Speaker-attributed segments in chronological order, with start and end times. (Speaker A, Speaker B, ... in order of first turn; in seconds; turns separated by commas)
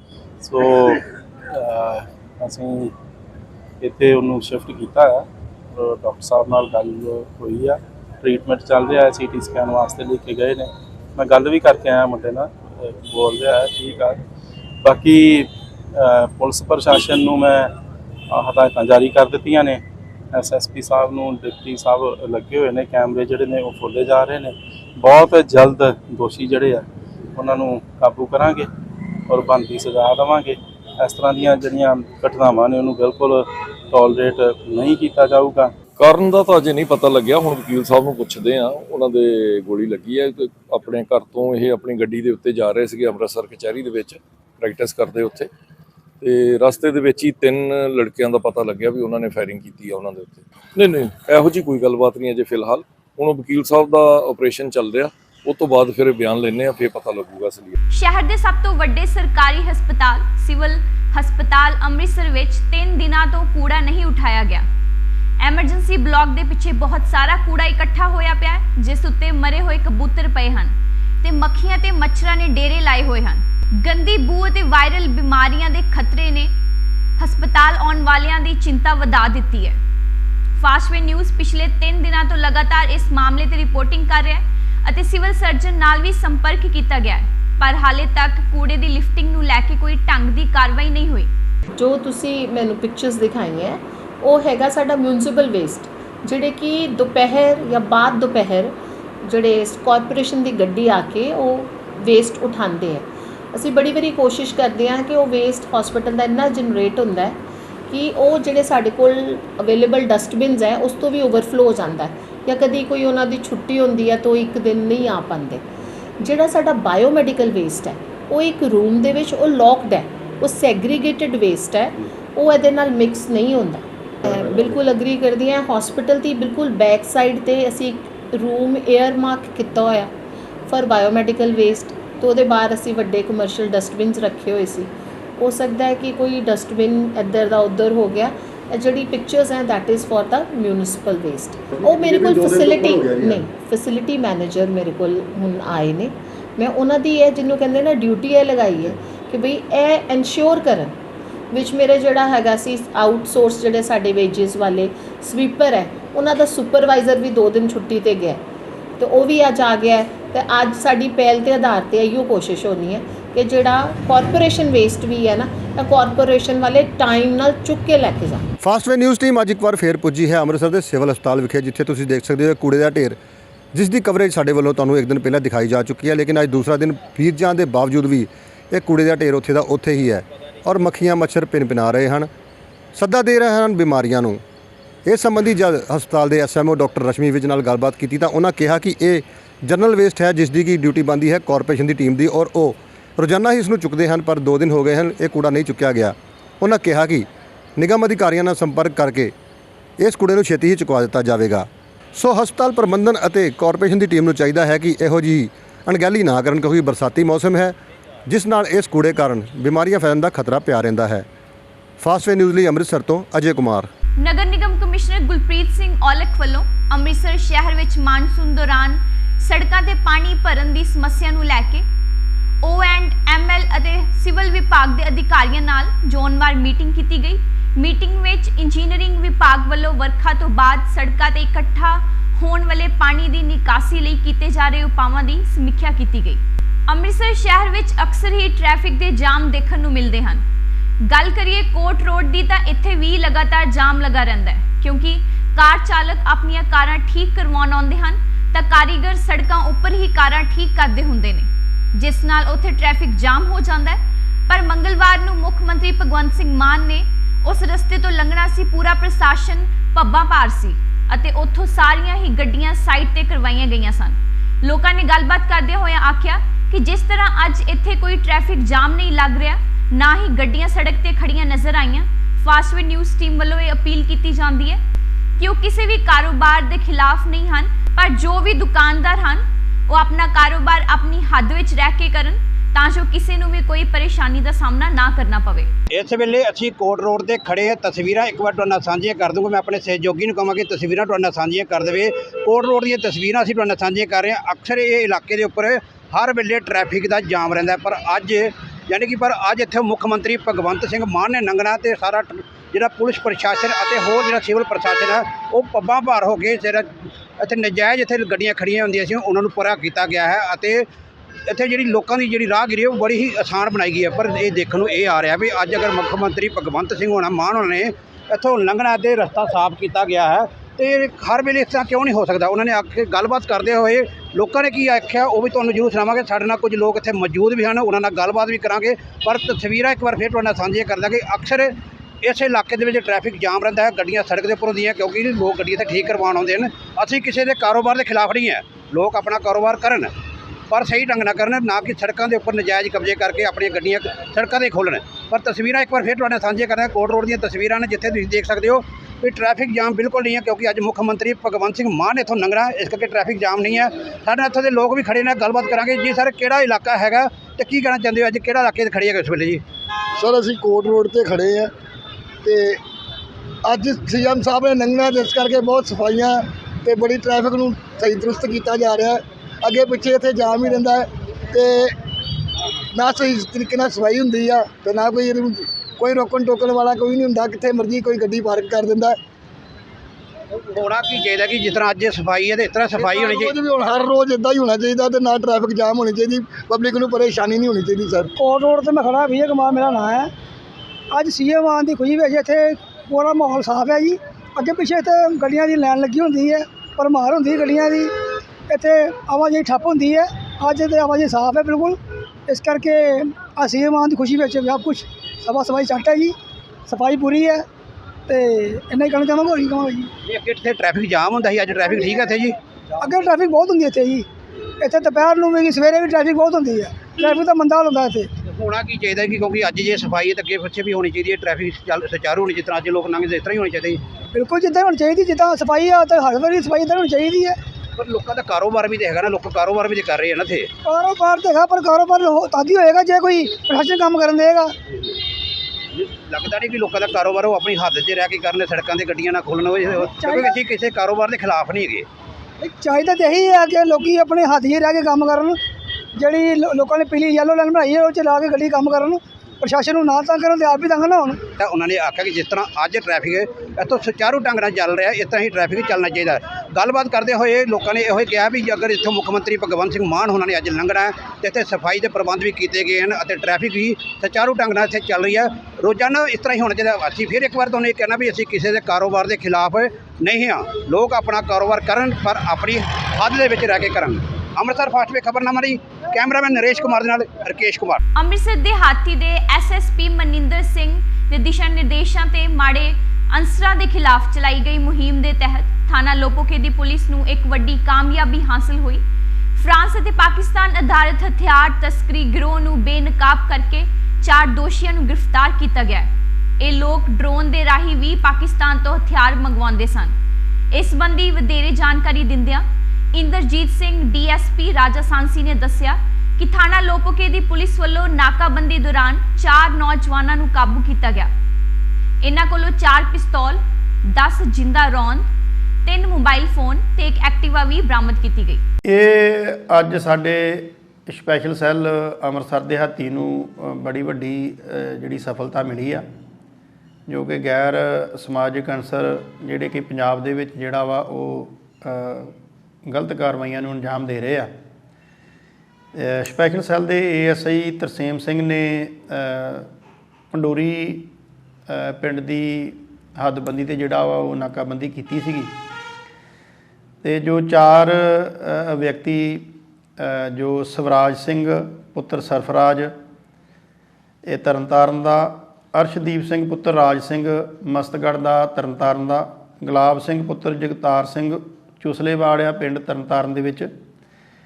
Speaker A: 0.4-2.9, Speaker A: 3.8-14.2, Speaker A: 14.8-17.7, Speaker A: 18.3-19.8, Speaker A: 20.3-28.7, Speaker A: 29.3-35.7, Speaker B: 36.0-45.5, Speaker B: 46.2-57.7, Speaker C: 57.9-64.7, Speaker C: 65.4-76.5, Speaker C: 77.2-79.8, Speaker C: 80.6-91.3, Speaker D: 91.8-115.7, Speaker D: 116.2-130.1, Speaker D: 130.7-151.0, Speaker D: 151.5-158.4, Speaker D: 159.0-168.4, Speaker E: 168.6-173.2, Speaker E: 173.7-182.3, Speaker E: 182.9-184.4, Speaker E: 185.1-199.3, Speaker E: 200.0-207.8, Speaker E: 208.3-211.2, Speaker E: 212.0-213.9, Speaker C: 214.2-221.8, Speaker C: 222.6-240.4, Speaker C: 241.0-274.8, Speaker C: 275.4-285.7, Speaker F: 285.9-306.9, Speaker F: 307.4-310.9, Speaker F: 311.5-340.1, Speaker F: 340.7-359.6, Speaker G: 360.2-361.7, Speaker G: 362.4-362.8, Speaker G: 363.7-371.9, Speaker G: 372.9-379.2, Speaker F: 380.6-383.5, Speaker G: 382.9-388.3, Speaker H: 388.4-390.3, Speaker H: 391.1-398.1, Speaker H: 398.7-406.3, Speaker H: 406.9-407.6, Speaker H: 408.3-410.1, Speaker F: 410.2-412.6, Speaker H: 413.0-414.3, Speaker H: 414.8-418.3, Speaker F: 418.4-424.0, Speaker H: 424.3-427.6, Speaker F: 428.0-430.7, Speaker H: 430.8-434.7, Speaker F: 436.2-442.1, Speaker H: 440.1-440.6, Speaker H: 442.6-445.6, Speaker H: 446.2-451.4, Speaker F: 451.6-478.0, Speaker C: 478.1-489.0, Speaker C: 489.6-496.1, Speaker C: 496.6-500.1, Speaker C: 500.7-511.3, Speaker C: 512.2-515.2, Speaker C: 515.8-518.6, Speaker I: 518.9-526.0, Speaker I: 527.1-532.3, Speaker I: 532.9-534.5, Speaker I: 535.9-539.7, Speaker I: 540.3-541.1, Speaker I: 541.7-545.5, Speaker I: 547.0-552.9, Speaker I: 554.2-563.7